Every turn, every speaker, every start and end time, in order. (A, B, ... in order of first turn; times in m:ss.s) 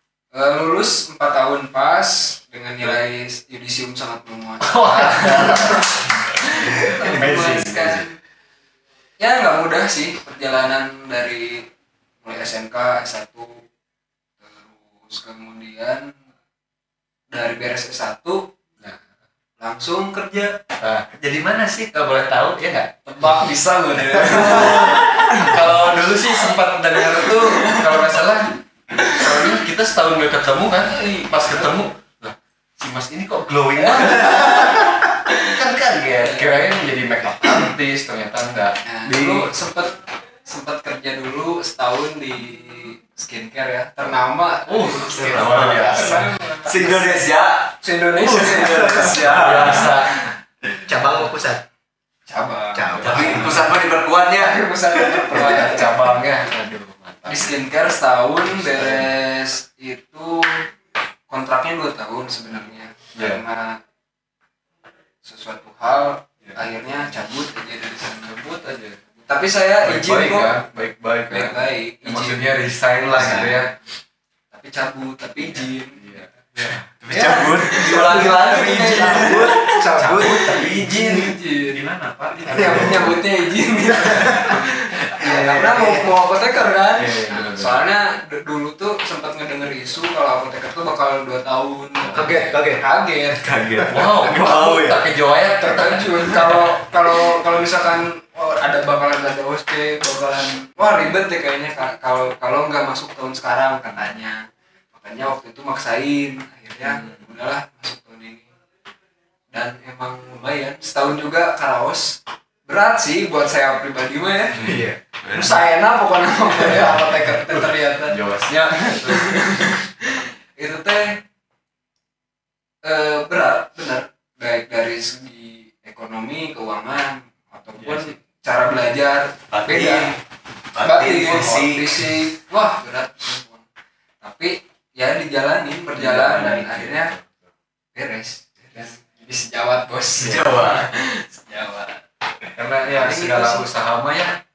0:00.3-0:08.2 A
0:04.6-0:08.0 B
0:09.2-0:11.7 A
0:12.2-0:13.6 A
0:14.4-0:16.1 A
0:17.3-0:18.5 A
0:19.6-0:20.6 A
0:20.8-0:23.0 B
0:23.0-0:25.5 A
0:24.2-0:39.5 B
0:27.1-0:27.9 A
0:30.9-0:31.7 A
0:34.1-0:34.5 A
0:36.2-0:36.6 A
0:38.8-0:47.3 A
0:44.7-0:46.3 B
0:45.0-0:46.3 C
0:46.6-0:50.0 D
0:47.8-0:49.9 A
0:48.6-0:50.3 B
0:50.8-0:51.6 C
0:52.3-0:53.6 A
0:52.7-0:53.6 C
0:53.0-0:55.3 D
0:53.0-0:53.5 B
0:54.3-0:56.0 A
0:55.3-0:57.5 B
0:57.2-1:00.7 A
0:58.6-0:59.1 B
1:01.3-1:03.8 A
1:03.2-1:03.4 B
1:05.2-1:08.4 A
1:06.4-1:07.0 B
1:08.2-1:09.0 B
1:09.2-1:10.6 A
1:09.8-1:13.7 B
1:11.3-1:12.4 A
1:13.1-1:13.5 C
1:14.5-1:16.2 A
1:15.4-1:16.8 B
1:17.0-1:19.5 D
1:17.1-1:21.8 A
1:17.7-1:19.4 B
1:18.4-1:21.2 C
1:20.0-1:23.2 B
1:22.4-1:33.4 A
1:22.5-1:23.0 C
1:24.1-1:24.4 C
1:25.1-1:26.2 B
1:27.0-1:27.8 B
1:32.0-1:32.3 B
1:32.1-1:32.8 C
1:33.4-1:35.1 D
1:33.9-1:36.8 B
1:35.6-1:48.5 A
1:49.5-1:54.7 A
1:54.6-1:55.0 C
1:54.6-1:55.6 D
1:55.3-1:58.2 A
1:58.1-1:59.6 B
1:58.8-2:01.2 A
2:02.8-2:10.2 A
2:07.8-2:08.2 B
2:09.5-2:10.2 D
2:10.7-2:12.1 D
2:10.8-2:13.6 A
2:14.2-2:17.1 A
2:15.9-2:17.3 B
2:17.9-2:22.0 A
2:20.2-2:20.8 D
2:22.6-2:24.4 B
2:22.9-2:23.7 A